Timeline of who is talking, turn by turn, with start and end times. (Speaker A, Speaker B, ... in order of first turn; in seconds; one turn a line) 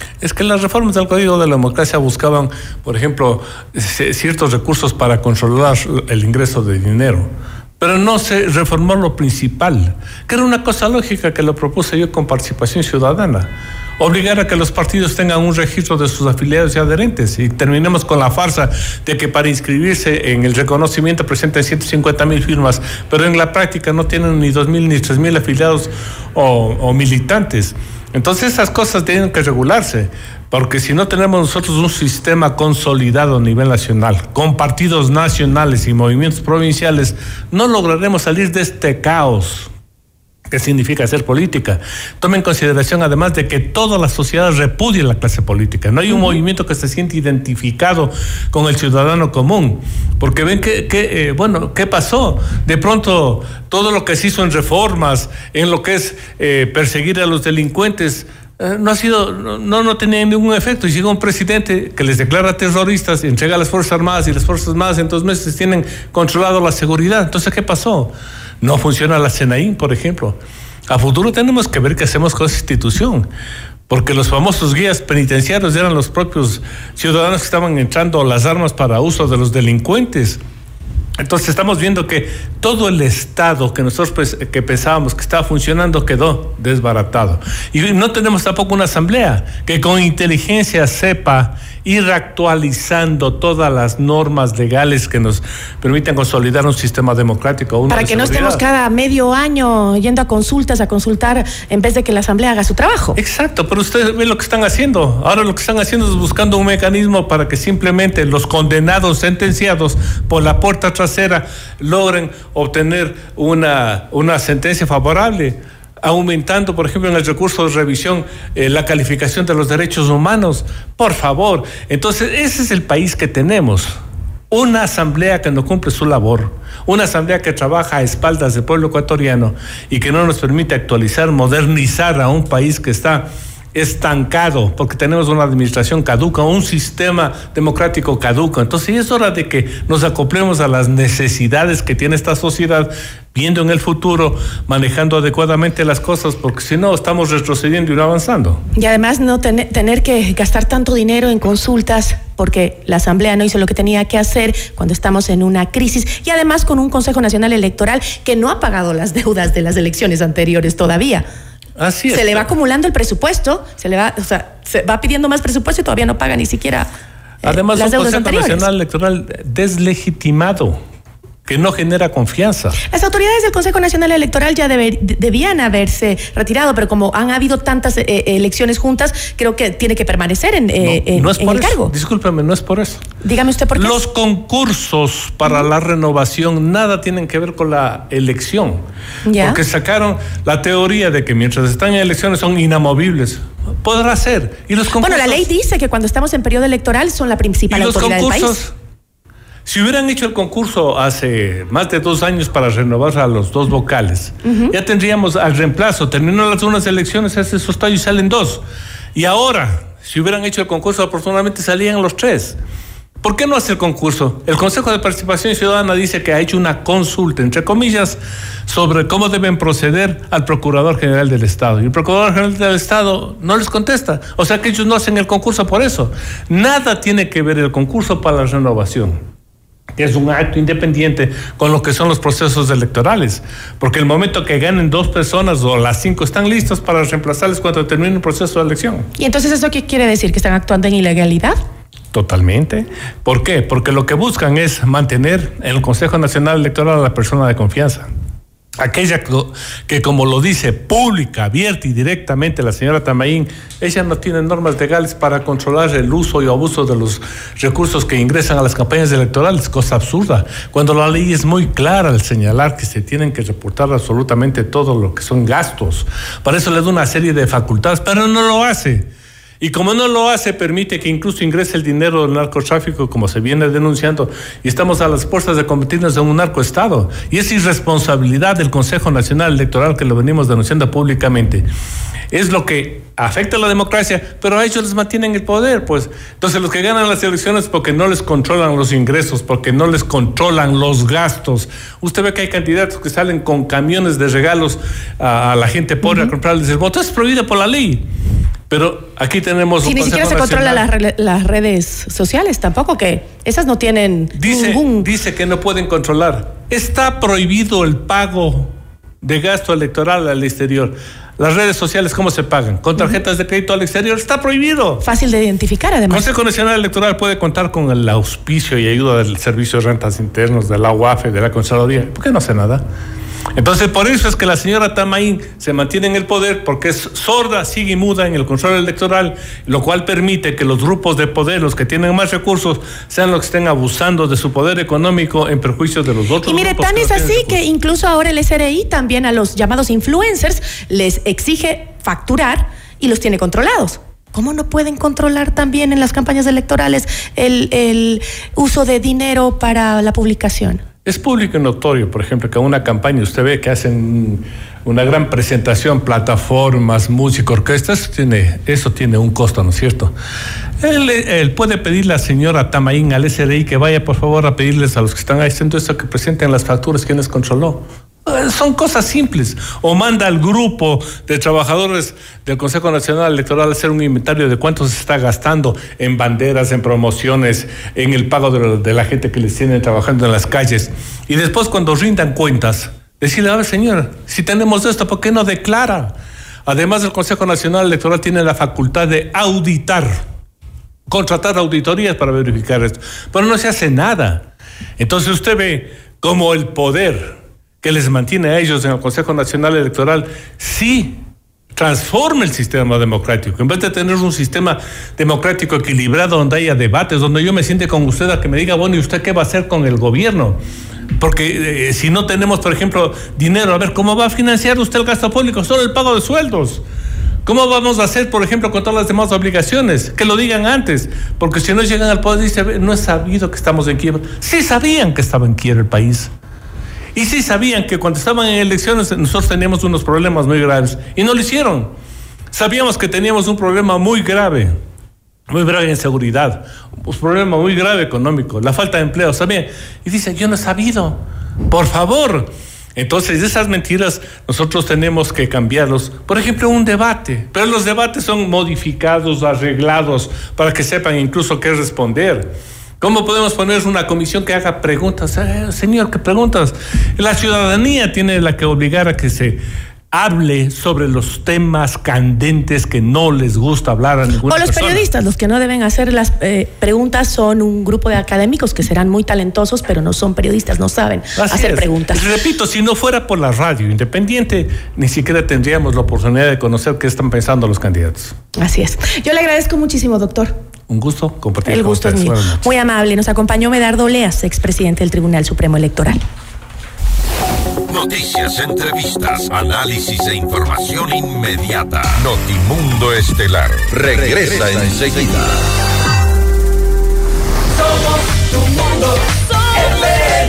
Speaker A: 0.2-39.7
Speaker A: 40.5-73.3
Speaker B: 46.1-46.4
Speaker A: 73.9-80.4
Speaker A: 81.2-98.6
Speaker B: 97.9-103.2
Speaker A: 103.2-123.9
Speaker A: 124.5-148.6
Speaker B: 148.8-161.2
Speaker A: 161.8-162.5
Speaker B: 162.1-166.9
Speaker B: 167.4-168.6
Speaker A: 167.4-170.8
Speaker A: 171.4-172.8
Speaker B: 172.9-181.9
Speaker A: 180.8-183.0
Speaker B: 183.2-184.0
Speaker A: 183.8-188.8
Speaker B: 189.3-189.6
Speaker A: 189.4-195.5
Speaker B: 195.0-198.6
Speaker A: 197.7-198.7
Speaker A: 199.7-208.6
Speaker B: 204.4-204.7
Speaker A: 209.1-212.6
Speaker A: 213.2-229.2
Speaker A: 230.0-239.1
Speaker B: 239.2-241.6
Speaker A: 242.1-248.1
Speaker A: 248.8-269.1
Speaker A: 269.6-281.7
Speaker A: 282.3-298.1
Speaker B: 296.0-296.3
Speaker A: 298.7-300.9
Speaker B: 299.8-305.1
Speaker A: 304.4-315.0
Speaker B: 315.0-316.3
Speaker A: 316.1-322.8
Speaker A: 323.5-337.6
Speaker B: 336.4-350.8
Speaker A: 351.0-360.1
Speaker A: 360.8-386.1
Speaker A: 386.6-390.2
Speaker A: 391.1-401.2
Speaker A: 401.7-410.6
Speaker A: 411.2-416.8
Speaker A: 417.4-426.3
Speaker A: 427.1-431.9
Speaker A: 432.5-434.7
Speaker A: 435.5-459.6
Speaker A: 460.1-465.1
Speaker B: 464.5-472.2
Speaker A: 471.4-478.3
Speaker B: 478.6-480.6
Speaker A: 480.9-482.7
Speaker B: 481.6-486.2
Speaker C: 487.9-495.6